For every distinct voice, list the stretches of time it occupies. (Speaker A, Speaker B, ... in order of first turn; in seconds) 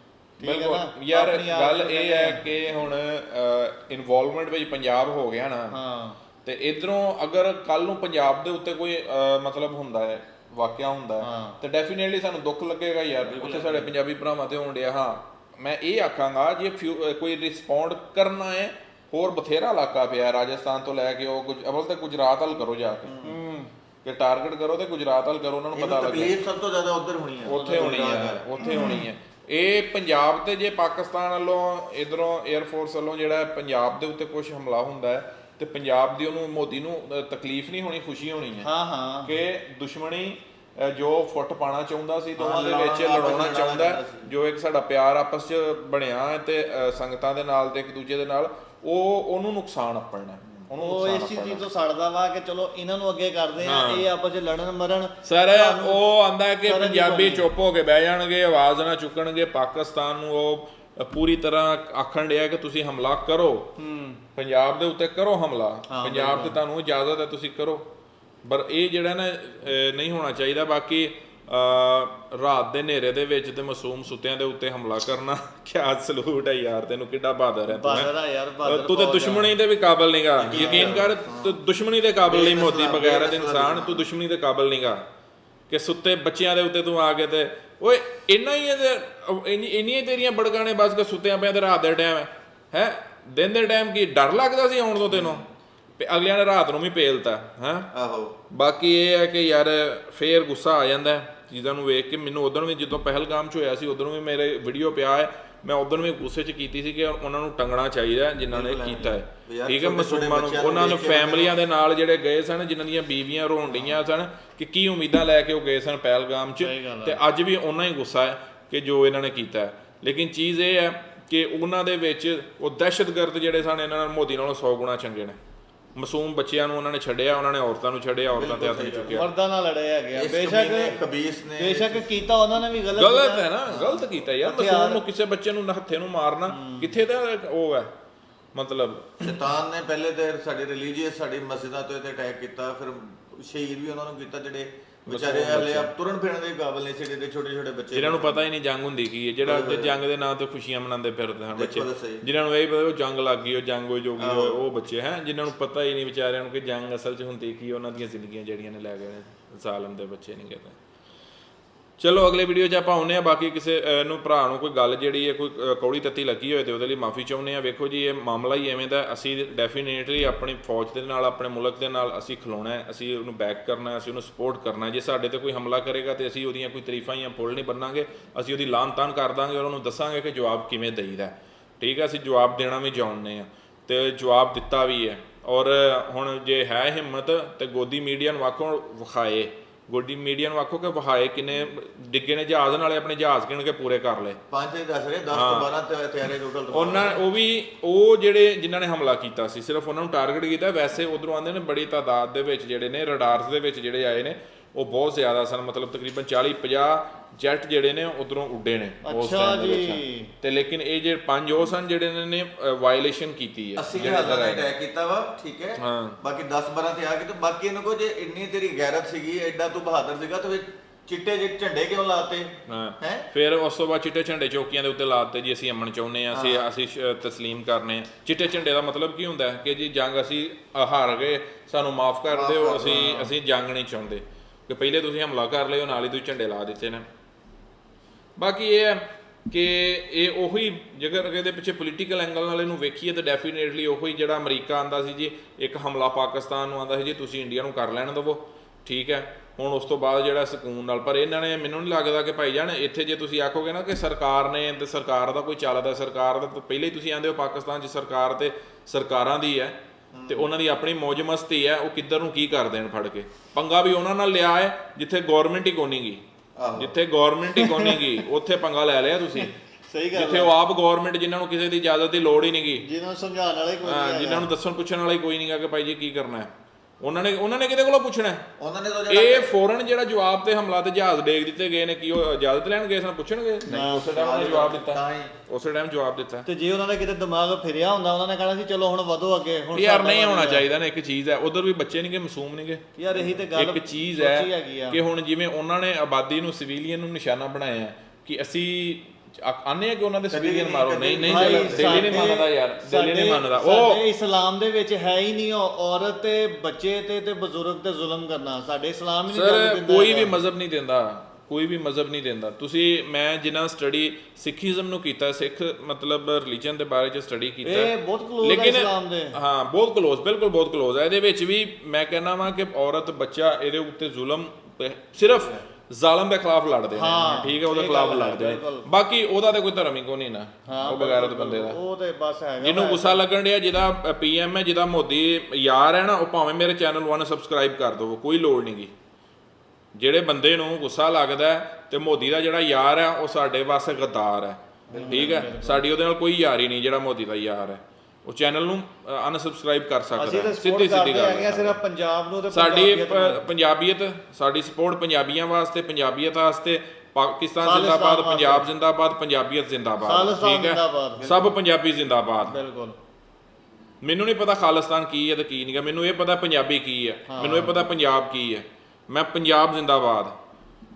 Speaker A: 0.4-2.4, 5.7-6.2, 11.2-11.6, 23.2-23.7, 27.6-27.9, 38.6-39.3, 50.8-56.0, 56.6-57.5, 63.8-64.2, 65.9-66.6, 77.7-79.5, 80.5-81.0, 116.6-117.2, 129.1-131.0, 131.6-135.0, 136.5-136.9, 209.1-210.3, 226.3-226.6, 232.8-233.3, 267.6-268.0, 269.9-270.5, 272.8-274.5, 283.7-284.1, 286.5-290.7, 293.0-295.0, 301.2-310.3, 317.6-319.4, 327.0-328.9, 330.7-333.2, 344.9-345.8, 350.2-353.5, 357.6-358.7, 360.0-361.2, 362.5-363.0, 367.3-367.8
Speaker B: 0.4-5.8, 6.4-23.1, 24.0-26.4, 27.5-38.7, 39.2-51.6, 53.6-54.1, 55.2-63.8, 64.3-67.9, 68.5-78.1, 78.6-85.0, 85.7-95.5, 96.0-97.9, 98.5-125.4, 126.0-129.3, 132.9-137.9, 138.6-139.3, 145.1-145.9, 147.9-160.8, 162.0-194.4, 195.3-195.7, 196.7-214.7, 215.8-216.2, 222.7-237.1, 238.4-266.2, 266.8-269.6, 270.1-272.9, 273.8-278.5, 279.1-286.5, 289.7-292.9, 293.5-304.0, 309.3-331.8, 332.6-338.9, 340.0-351.8, 352.5-362.6, 364.0-370.4
Speaker C: 13.3-13.9, 23.1-23.4, 25.7-28.4, 42.4-44.3, 80.4-81.6, 82.3-84.0, 97.9-98.4, 108.5-111.6, 128.3-129.2, 130.1-132.2, 139.2-148.4, 149.4-150.0, 151.6-152.2, 154.2-154.6, 194.5-197.2, 213.8-223.3, 232.3-233.2, 260.1-260.5, 266.6-266.9, 278.6-279.5, 283.7-285.3, 300.3-302.2, 344.9-345.5, 361.2-361.6